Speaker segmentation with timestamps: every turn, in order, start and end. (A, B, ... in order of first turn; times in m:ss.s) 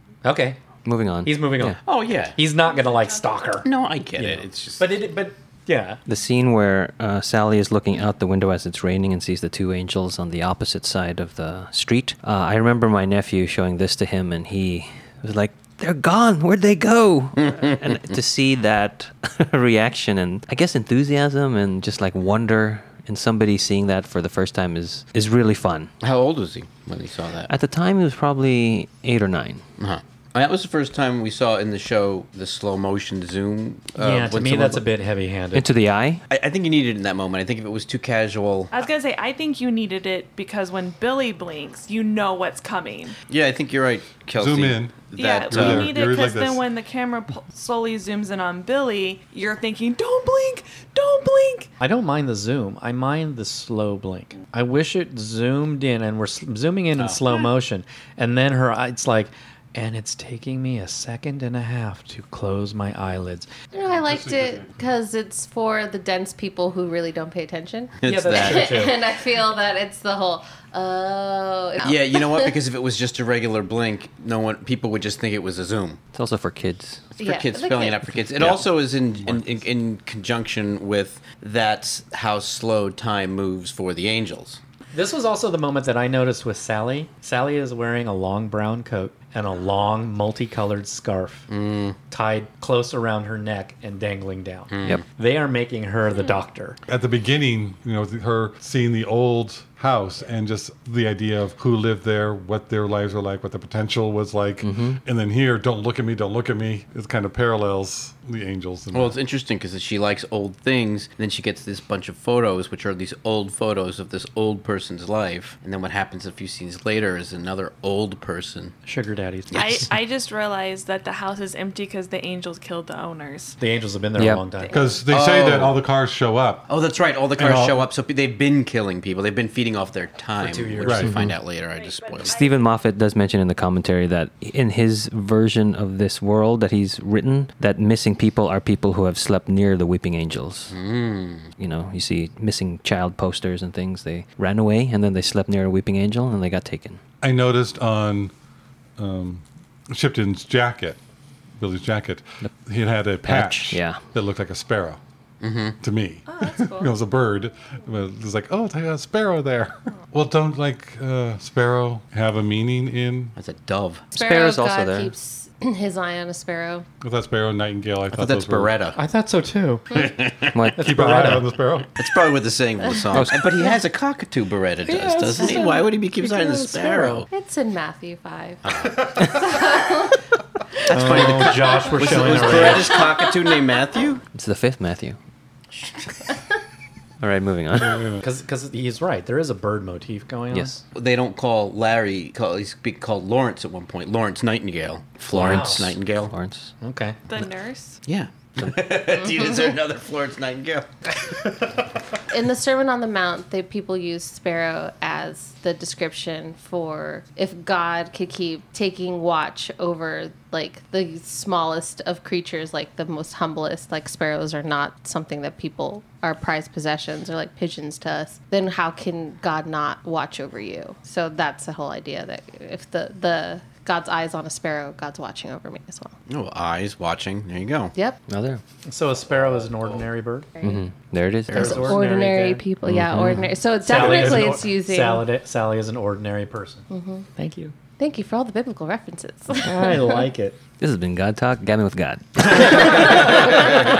0:00.2-0:00.6 A
0:00.8-0:01.8 B
0:01.2-0:06.0 A
0:01.8-0:02.4 C
0:03.6-0:04.9 C
0:06.1-0:25.9 B
0:17.4-0:17.9 C
0:26.0-0:27.5 C
0:27.5-0:29.6 B
0:29.8-0:34.8 C
0:34.0-0:35.7 A
0:35.5-0:36.2 B
0:36.3-0:38.7 C
0:38.7-0:43.2 D
0:43.3-0:46.0 C
0:44.4-0:46.6 E
0:45.1-0:51.7 D
0:51.8-1:03.7 A
0:57.0-0:57.4 C
1:03.7-1:12.6 F
1:03.9-1:04.8 E
1:08.0-1:08.9 C
1:08.0-1:09.0 A
1:11.8-1:16.0 C
1:16.1-1:17.0 B
1:17.2-1:24.6 C
1:17.2-1:18.0 F
1:24.9-1:31.5 A
1:31.5-1:32.0 C
1:32.1-1:36.8 A
1:34.7-1:35.0 C
1:36.9-1:49.2 E
1:44.6-1:45.0 B
1:48.9-1:58.7 C
1:58.8-1:59.6 A
1:59.5-1:59.8 C
1:59.5-2:03.6 D
2:03.6-2:04.8 A
2:04.2-2:04.4 B
2:04.6-2:05.0 D
2:04.7-2:06.7 E
2:05.1-2:05.8 C
2:06.7-2:12.4 C
2:07.4-2:07.8 E
2:10.4-2:11.1 A
2:10.8-2:11.1 E
2:11.0-2:11.3 B
2:11.7-2:12.6 D
2:12.2-2:20.8 B
2:20.7-2:21.5 C
2:21.6-2:27.0 B
2:27.2-2:28.3 E
2:29.0-2:31.0 E
2:31.6-2:35.0 E
2:33.2-2:34.0 B
2:35.4-2:35.8 C
2:35.8-2:43.3 E
2:36.2-2:36.9 D
2:43.4-2:44.1 C
2:44.1-2:46.8 F
2:44.1-2:45.1 B
2:47.0-2:48.8 E
2:48.1-2:49.0 C
2:49.0-2:50.1 A
2:49.9-2:50.7 C
2:50.5-2:51.3 B
2:50.7-2:52.0 E
2:50.8-2:51.5 A
2:52.0-2:57.3 C
2:52.8-2:53.7 F
2:54.8-2:57.2 A
2:57.3-3:00.2 F
2:58.6-2:59.4 C
3:00.9-3:04.2 C
3:00.9-3:03.0 A
3:02.6-3:03.7 F
3:04.3-3:05.2 B
3:07.2-3:08.1 B
3:07.8-3:08.2 E
3:08.2-3:10.8 A
3:10.5-3:10.8 B
3:10.9-3:16.3 C
3:15.3-3:16.7 B
3:15.3-3:16.0 A
3:16.8-3:17.2 A
3:17.3-3:18.0 D
3:18.0-3:20.9 C
3:22.3-3:46.1 F
3:46.3-3:47.9 C
3:47.9-3:48.2 F
3:48.3-3:48.6 B
3:48.8-3:50.5 A
3:49.4-3:50.0 C
3:50.6-3:50.8 F
3:50.6-3:52.0 B
3:51.5-3:51.9 C
3:51.5-3:52.6 A
3:51.5-3:55.3 F
3:52.8-3:53.5 B
3:53.8-3:57.7 A
3:54.0-3:54.3 E
3:56.9-3:57.3 F
3:58.0-4:00.3 F
3:59.6-4:00.6 A
4:00.8-4:03.3 B
4:02.7-4:03.6 F